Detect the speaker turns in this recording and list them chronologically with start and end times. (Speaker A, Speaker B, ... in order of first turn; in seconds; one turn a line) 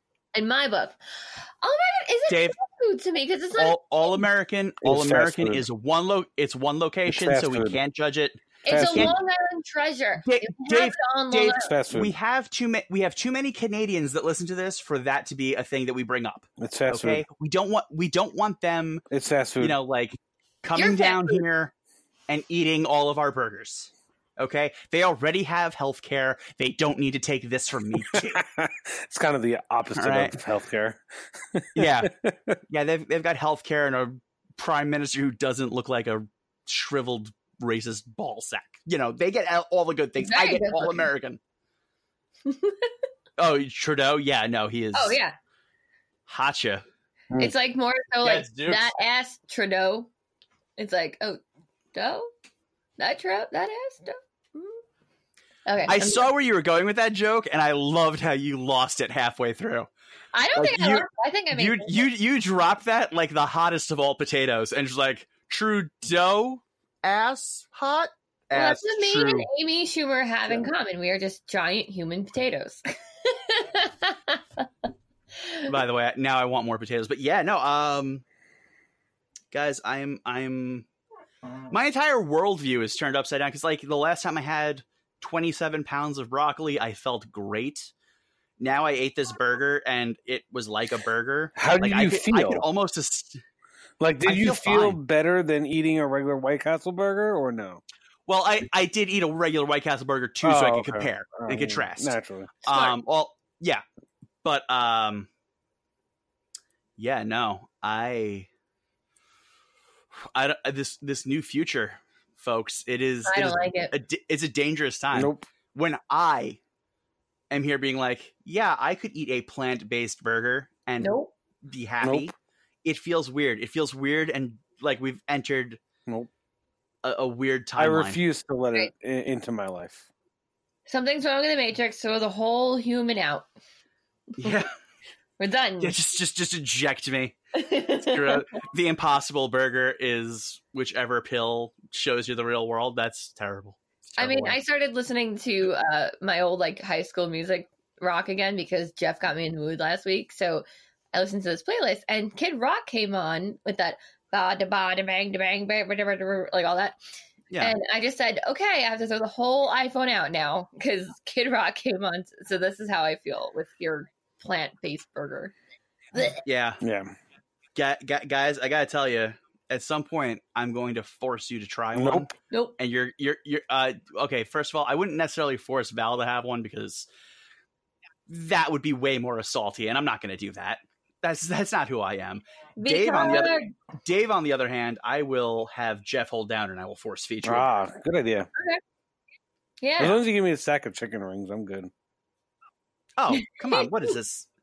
Speaker A: 0.3-4.2
Speaker B: 2.3-2.5
Speaker B: 3.5-9.1
Speaker C: 4.8-5.7
Speaker C: 7.1-7.8
Speaker A: 8.6-11.7
Speaker C: 8.7-9.2
Speaker B: 10.2-19.0
Speaker C: 11.6-12.1
Speaker C: 16.6-17.2
Speaker C: 19.1-19.8
Speaker B: 19.6-21.7
Speaker A: 20.8-21.4
Speaker B: 22.3-28.4
Speaker C: 27.9-32.6
Speaker B: 29.9-30.4
Speaker B: 31.7-32.1
Speaker B: 32.7-41.4
Speaker A: 40.2-41.1
Speaker A: 42.4-42.9
Speaker B: 43.4-45.2
Speaker A: 44.9-45.3
Speaker B: 46.3-46.8
Speaker A: 47.4-50.1
Speaker B: 48.2-48.9
Speaker A: 50.8-51.4
Speaker A: 51.9-52.3
Speaker A: 53.0-54.8
Speaker A: 55.6-56.2
Speaker B: 55.9-59.9
Speaker A: 60.3-62.1
Speaker B: 60.5-69.5
Speaker A: 68.5-74.7
Speaker A: 75.4-75.7
Speaker B: 75.7-78.2
Speaker B: 79.5-80.9
Speaker B: 81.7-87.9
Speaker B: 88.6-93.4
Speaker C: 91.6-92.7
Speaker C: 94.0-97.8
Speaker B: 94.2-95.0
Speaker B: 98.3-103.8
Speaker C: 100.4-102.5
Speaker A: 102.7-103.0
Speaker B: 104.4-105.3
Speaker B: 107.0-108.5
Speaker B: 110.3-116.6
Speaker A: 113.2-113.9
Speaker C: 115.1-115.5
Speaker B: 117.5-121.1
Speaker A: 121.0-121.3
Speaker B: 121.6-122.3
Speaker C: 122.0-122.3
Speaker B: 122.8-125.8
Speaker B: 127.0-128.2
Speaker C: 127.8-130.1
Speaker A: 130.8-133.5
Speaker B: 134.4-134.7
Speaker A: 135.4-135.9
Speaker B: 135.8-144.6
Speaker A: 137.5-138.4
Speaker A: 144.2-157.0
Speaker A: 157.6-165.5
Speaker A: 166.1-166.4
Speaker B: 166.4-166.8
Speaker C: 166.8-167.1
Speaker B: 167.7-177.1
Speaker C: 171.9-172.3
Speaker A: 172.5-172.8
Speaker B: 178.3-187.7
Speaker A: 182.8-183.7
Speaker C: 187.4-188.5
Speaker A: 188.6-188.8
Speaker A: 189.8-190.2
Speaker C: 190.0-191.9
Speaker B: 193.2-194.5
Speaker A: 193.4-193.9